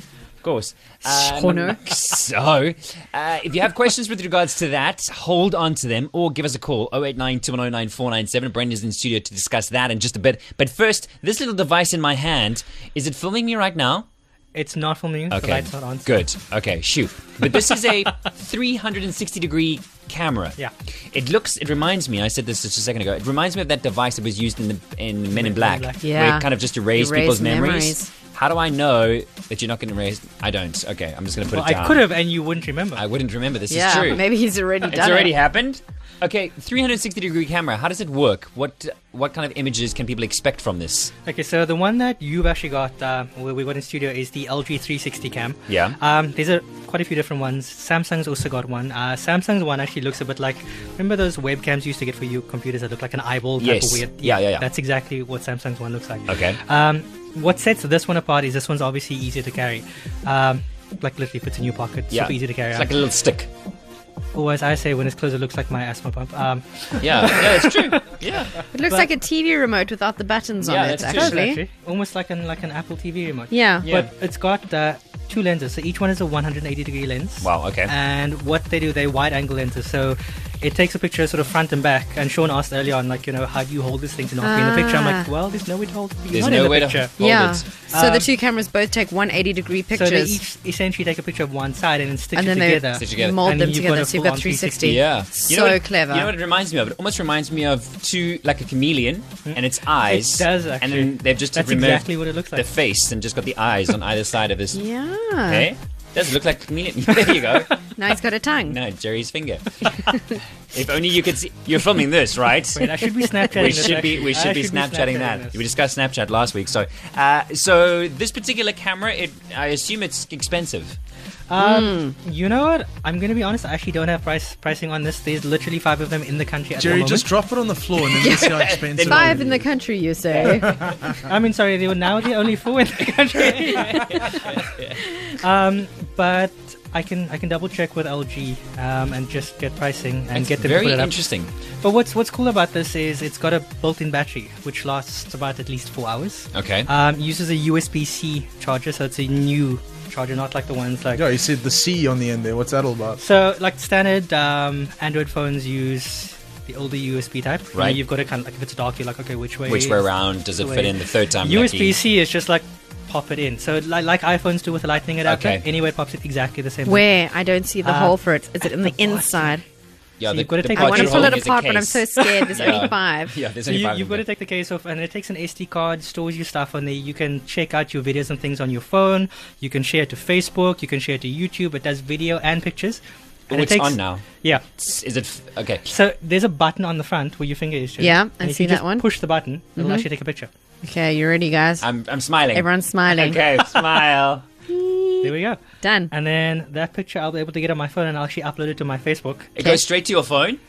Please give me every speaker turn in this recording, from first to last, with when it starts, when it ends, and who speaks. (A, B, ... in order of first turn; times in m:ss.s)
0:00.4-0:14.0 A
0:01.0-0:02.0 B
0:14.5-0:16.2 C
0:15.3-0:20.6 A
0:21.1-0:32.1 A
0:25.3-0:26.0 C
0:26.0-0:28.1 B
0:31.5-0:33.0 C
0:33.0-0:34.2 A
0:33.7-0:35.4 B
0:34.8-0:41.1 A
0:41.3-1:02.9 C
0:45.7-0:46.0 A
0:53.6-0:54.6 A
0:56.3-0:56.6 A
1:02.1-1:03.5 A
1:04.3-1:08.1 C
1:07.0-1:08.6 A
1:08.7-1:11.6 B
1:08.8-1:09.1 C
1:10.6-1:11.4 A
1:11.1-1:27.1 C
1:13.5-1:13.9 B
1:13.8-1:14.1 A
1:17.4-1:17.9 A
1:24.4-1:25.3 B
1:26.3-1:27.6 A
1:27.2-1:30.4 B
1:27.8-1:28.3 C
1:29.9-1:35.0 C
1:32.3-1:36.3 B
1:32.9-1:33.4 A
1:34.8-1:44.8 A
1:39.5-1:42.7 C
1:44.7-1:45.7 B
1:45.5-1:47.9 A
1:48.0-1:48.8 B
1:48.6-1:50.2 A
1:50.7-2:01.0 A
1:52.8-1:55.6 C
2:01.5-2:07.3 C
2:01.6-2:02.2 B
2:06.8-2:09.7 D
2:08.2-2:10.8 B
2:08.5-2:09.4 A
2:10.3-2:14.7 C
2:10.6-2:11.2 D
2:13.6-2:15.0 A
2:15.3-2:21.2 C
2:20.3-2:21.5 A
2:21.8-2:31.3 C
2:26.5-2:26.9 A
2:31.1-2:33.2 D
2:33.2-2:47.1 C
2:37.7-2:38.0 A
2:39.7-2:42.0 A
2:45.2-2:45.6 A
2:46.8-2:49.6 B
2:47.8-2:49.5 C
2:50.2-2:54.2 A
2:50.3-2:51.5 C
2:50.8-2:53.3 B
2:52.2-2:52.9 C
2:53.7-3:04.6 C
3:03.5-3:04.2 A
3:04.8-3:05.8 A
3:05.9-3:10.5 C
3:08.0-3:09.1 B
3:09.8-3:10.1 B
3:10.8-3:11.9 B
3:11.8-3:14.4 A
3:12.5-3:13.4 B
3:14.7-3:16.1 B
3:15.2-3:19.5 C
3:19.6-3:20.6 A